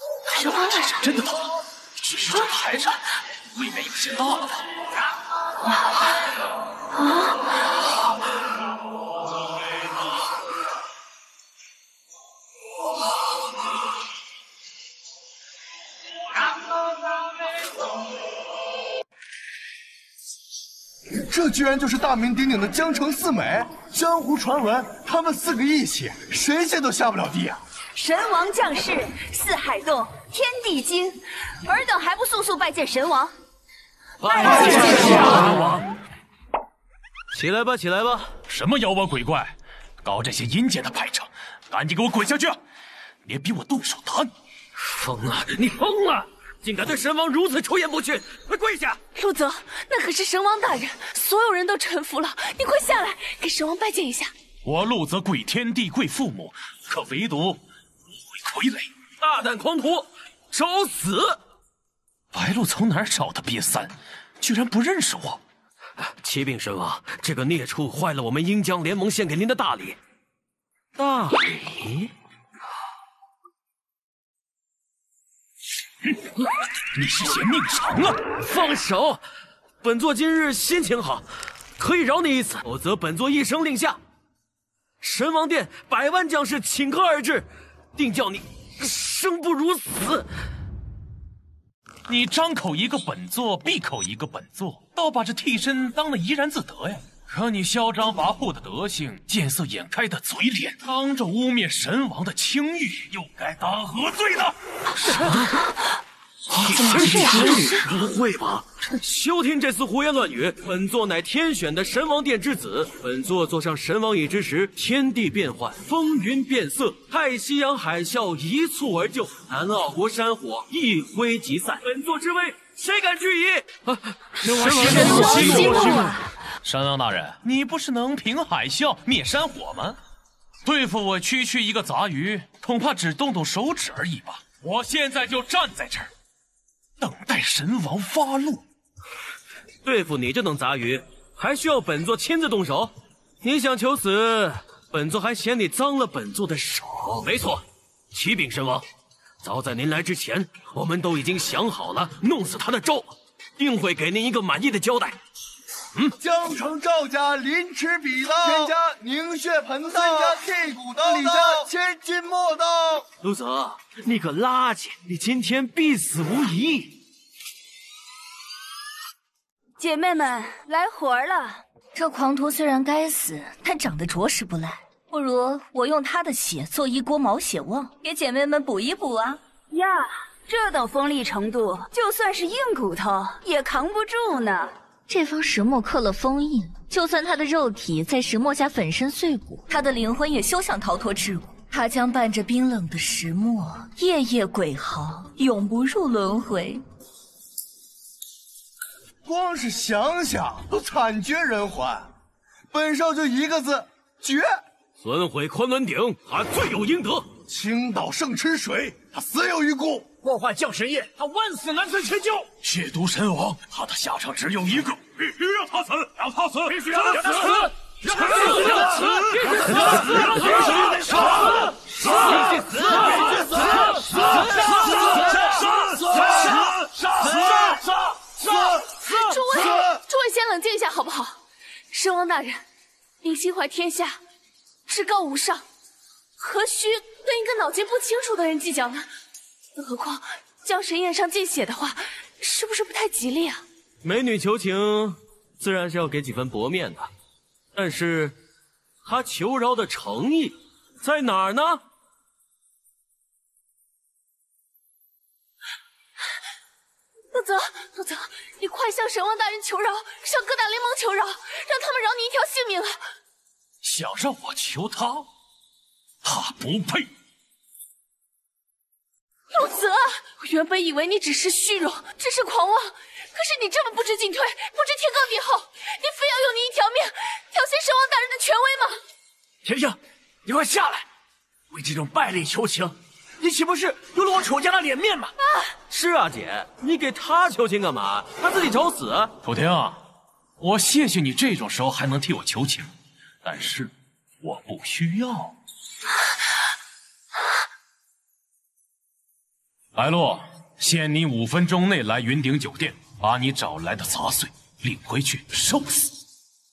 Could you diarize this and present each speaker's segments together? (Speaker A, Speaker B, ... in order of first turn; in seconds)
Speaker A: 0.3-4.6, 38.5-42.6, 43.3-44.3, 54.6-57.6, 58.4-58.9, 62.3-65.4, 76.9-78.3, 92.1-104.5, 124.4-126.1, 126.6-130.0, 130.6-136.1, 137.0-138.6, 212.6-217.6, 218.2-226.8, 263.8-265.3, 266.2-267.1, 289.4-290.0, 290.6-292.9, 293.4-293.9, 294.4-295.5, 299.9-306.1
Speaker B: 21.2-27.6, 156.2-163.1, 199.2-202.1, 202.7-204.6, 207.5-210.1, 222.9-227.8, 228.4-228.9
Speaker C: 27.9-33.3, 34.3-34.7, 125.1-126.0, 169.8-171.6, 179.7-184.7
Speaker D: 34.2-35.7, 37.3-38.3, 44.8-49.0, 59.2-61.4, 66.2-70.0, 71.0-71.7, 78.4-79.2, 79.8-81.3, 81.8-84.0, 85.0-90.3, 106.8-107.7, 109.0-126.1, 139.8-148.8, 149.4-155.2, 163.2-167.0, 205.0-207.3, 218.8-219.6, 222.1-223.5, 244.0-247.1, 247.7-248.3, 249.0-251.8, 285.9-289.3
Speaker E: 34.4-35.8, 106.9-108.6, 125.1-125.4, 210.2-212.5, 216.7-225.6, 226.2-226.6, 227.3-227.5, 279.6-281.1, 281.7-285.3
Speaker F: 49.1-54.3, 229.1-231.4, 231.9-232.6, 233.2-234.2, 234.9-235.6, 236.4-239.1, 239.8-243.6, 257.3-263.0, 269.5-279.0
Speaker G: 171.9-179.4, 185.1-196.8